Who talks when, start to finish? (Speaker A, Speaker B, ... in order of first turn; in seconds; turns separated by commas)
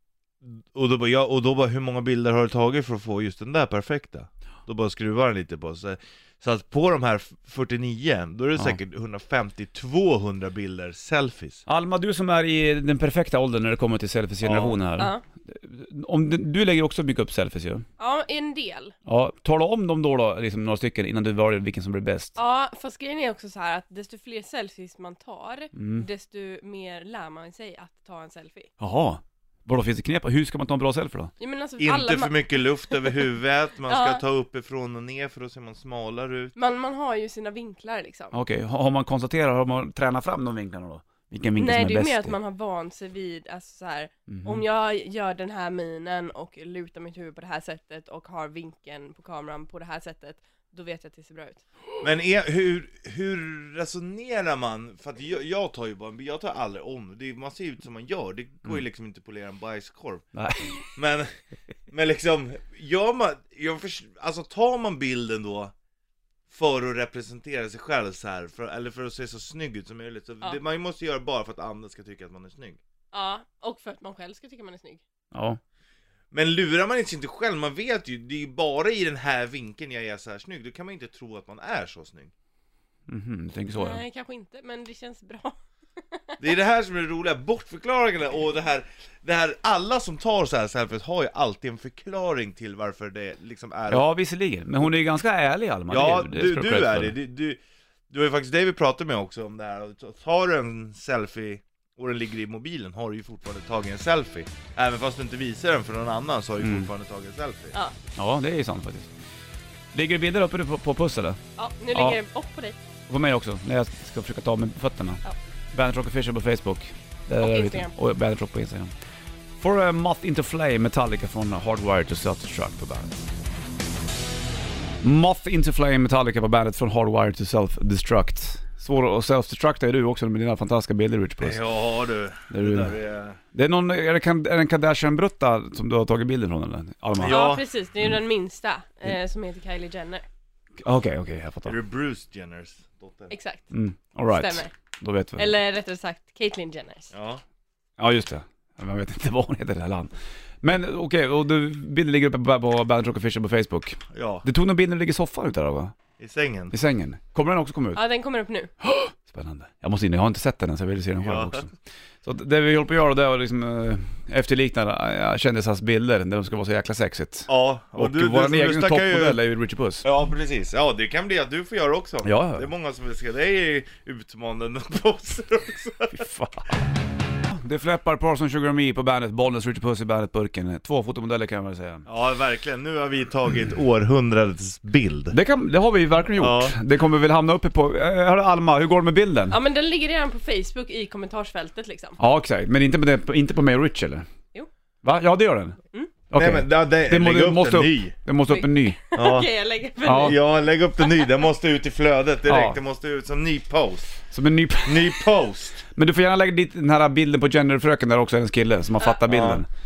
Speaker A: 0.4-11.6, Speaker B: 11.7-17.8, Speaker A: 14.4-14.8, Speaker C: 18.0-18.9, Speaker B: 19.1-22.4, Speaker C: 22.4-28.7, Speaker B: 25.7-26.1, Speaker B: 28.8-31.3, Speaker C: 31.4-33.2, Speaker A: 31.8-36.5, Speaker C: 33.9-34.2, Speaker C: 36.5-38.3, Speaker B: 38.3-42.4, Speaker C: 41.6-51.6, Speaker B: 44.3-44.6, Speaker A: 52.0-60.2, Speaker B: 60.3-60.9, Speaker A: 60.8-61.3, Speaker A: 61.9-65.7, Speaker A: 66.5-72.8, Speaker C: 73.1-75.0, Speaker B: 75.3-75.6, Speaker A: 76.3-82.3, Speaker B: 83.1-84.0, Speaker C: 83.7-85.5, Speaker C: 86.1-86.4, Speaker A: 86.4-94.0, Speaker B: 93.9-97.1, Speaker A: 95.9-97.6, Speaker A: 98.1-107.7, Speaker B: 106.6-106.9, Speaker B: 108.2-109.1, Speaker B: 109.9-111.4, Speaker C: 111.6-112.8, Speaker B: 111.9-112.2, Speaker B: 113.1-115.2, Speaker B: 115.7-118.9, Speaker C: 117.4-117.9, Speaker B: 119.6-123.1, Speaker B: 125.0-131.6, Speaker A: 131.4-133.4, Speaker B: 132.5-132.9, Speaker B: 133.5-137.5, Speaker A: 137.2-137.6, Speaker C: 137.2-140.2, Speaker B: 140.8-141.8, Speaker A: 141.7-143.3, Speaker C: 143.3-143.7, Speaker B: 143.7-145.5, Speaker C: 144.3-144.7, Speaker C: 145.4-147.1, Speaker A: 147.1-147.4, Speaker B: 148.0-150.1, Speaker B: 150.6-155.9, Speaker A: 154.1-154.4, Speaker A: 156.2-156.7, Speaker B: 156.7-158.0, Speaker C: 157.9-158.7, Speaker B: 158.8-161.7, Speaker A: 161.2-161.6, Speaker B: 162.2-170.1, Speaker A: 167.5-169.4, Speaker A: 170.0-176.2, Speaker B: 172.2-172.7, Speaker B: 176.1-176.8, Speaker B: 177.5-182.1, Speaker A: 182.1-185.3, Speaker B: 185.3-189.6, Speaker A: 186.4-186.8, Speaker C: 189.5-192.2, Speaker B: 192.2-194.3, Speaker B: 195.0-195.8, Speaker B: 196.3-199.0, Speaker A: 196.3-198.1, Speaker C: 198.5-200.5, Speaker A: 199.1-199.5, Speaker B: 200.0-200.3, Speaker A: 200.1-204.2, Speaker B: 202.5-202.8, Speaker B: 204.3-205.2, Speaker A: 204.8-205.8, Speaker B: 205.9-209.7, Speaker A: 209.3-209.6